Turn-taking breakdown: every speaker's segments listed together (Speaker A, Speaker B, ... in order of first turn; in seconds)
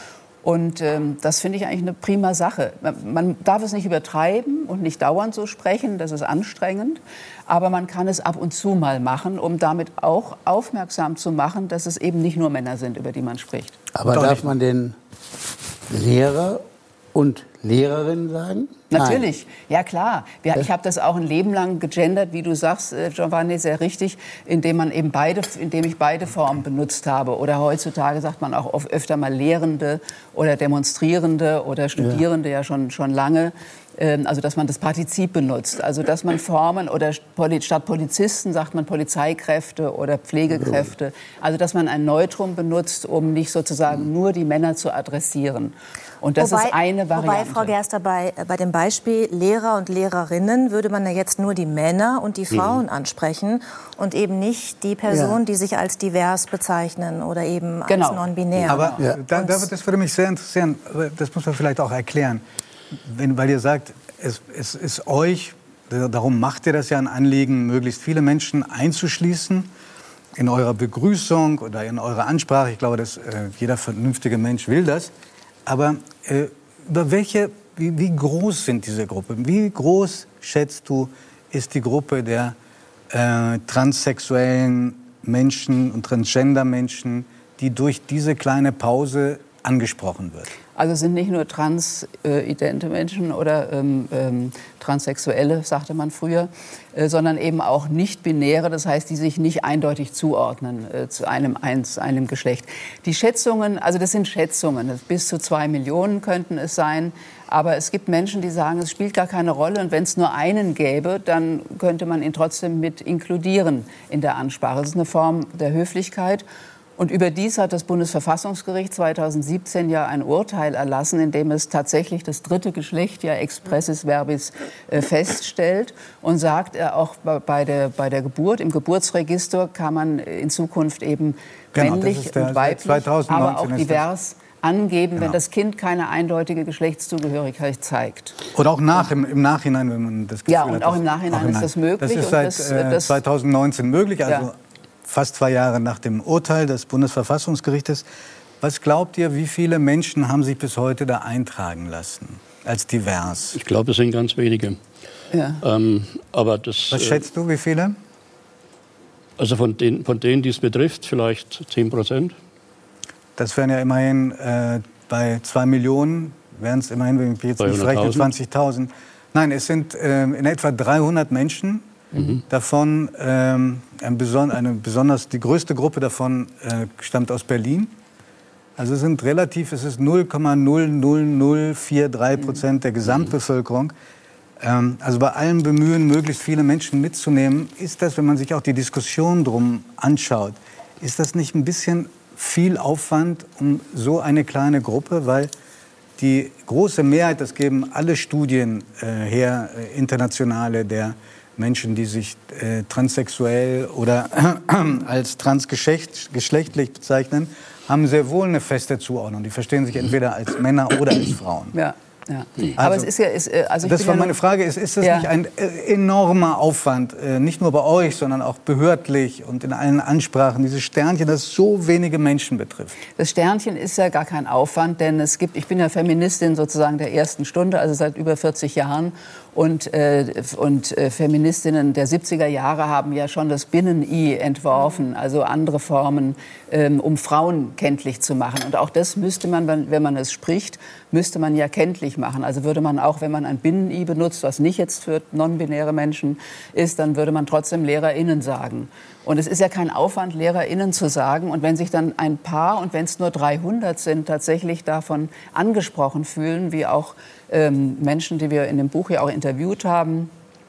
Speaker A: 0.4-13.8, 18.9-47.8, 57.9-59.1, 90.8-116.4, 117.0-138.4, 140.5-143.2, 155.3-155.6, 211.7-214.4, 215.0-215.3, 223.2-260.3
Speaker B: 13.9-15.0, 15.9-16.6, 17.1-19.3, 55.1-55.4
Speaker C: 14.1-14.5, 58.6-62.4, 63.0-69.7, 70.4-75.1, 75.7-82.5, 83.1-90.5, 131.7-134.0, 138.5-144.5, 145.1-148.1, 148.6-153.6, 156.9-157.9, 163.4-177.9, 178.8-183.9, 184.6-195.5, 196.2-211.8, 212.8-213.1, 213.8-223.0
Speaker D: 46.4-59.6
Speaker E: 52.5-52.8, 153.6-154.8, 155.6-157.2, 159.4-162.3, 167.6-168.3, 172.1-172.4